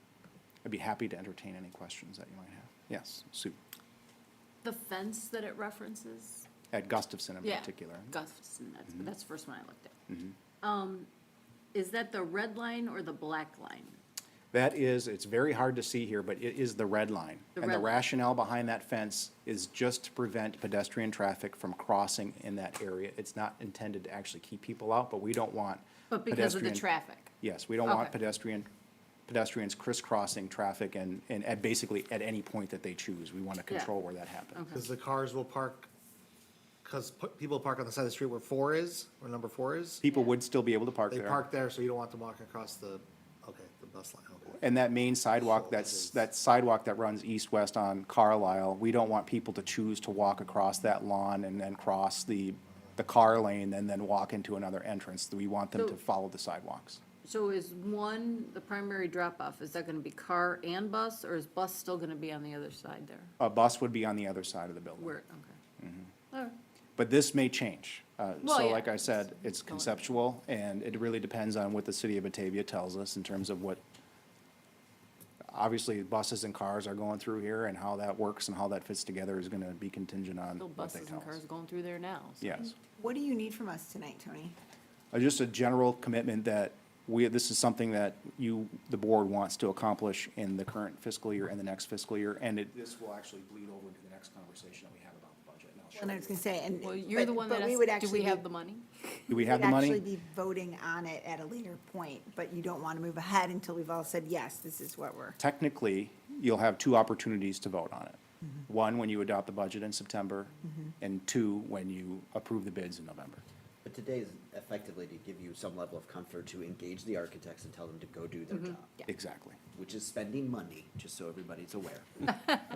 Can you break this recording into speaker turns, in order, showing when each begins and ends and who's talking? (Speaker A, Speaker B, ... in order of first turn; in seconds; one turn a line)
Speaker A: 0.6-3.6
Speaker B: 4.6-6.5
Speaker A: 6.7-8.1
Speaker B: 7.4-9.9
Speaker A: 10.1-10.3
Speaker B: 10.6-11.1
Speaker B: 11.7-14.0
Speaker A: 14.5-26.9
Speaker B: 17.6-18.0
Speaker B: 26.1-27.3
Speaker A: 27.4-28.7
Speaker B: 27.8-28.1
Speaker A: 29.3-34.6
Speaker B: 34.5-34.8
Speaker C: 34.7-35.9
Speaker C: 36.8-40.0
Speaker A: 40.0-41.4
Speaker C: 41.1-44.6
Speaker A: 44.6-57.0
Speaker C: 45.4-46.2
Speaker B: 57.2-63.3
Speaker A: 63.4-65.2
Speaker B: 65.0-65.6
Speaker A: 65.8-66.1
Speaker B: 66.3-66.6
Speaker A: 67.0-73.8
Speaker B: 68.4-70.0
Speaker A: 75.5-81.4
Speaker B: 80.6-82.7
Speaker A: 82.4-82.7
Speaker D: 82.8-84.5
Speaker A: 85.1-96.4
Speaker D: 96.0-98.4
Speaker B: 96.8-99.2
Speaker A: 99.3-100.0
Speaker D: 99.3-105.4
Speaker A: 105.4-113.4
Speaker E: 113.8-119.1
Speaker A: 119.1-119.6
Speaker E: 119.7-122.6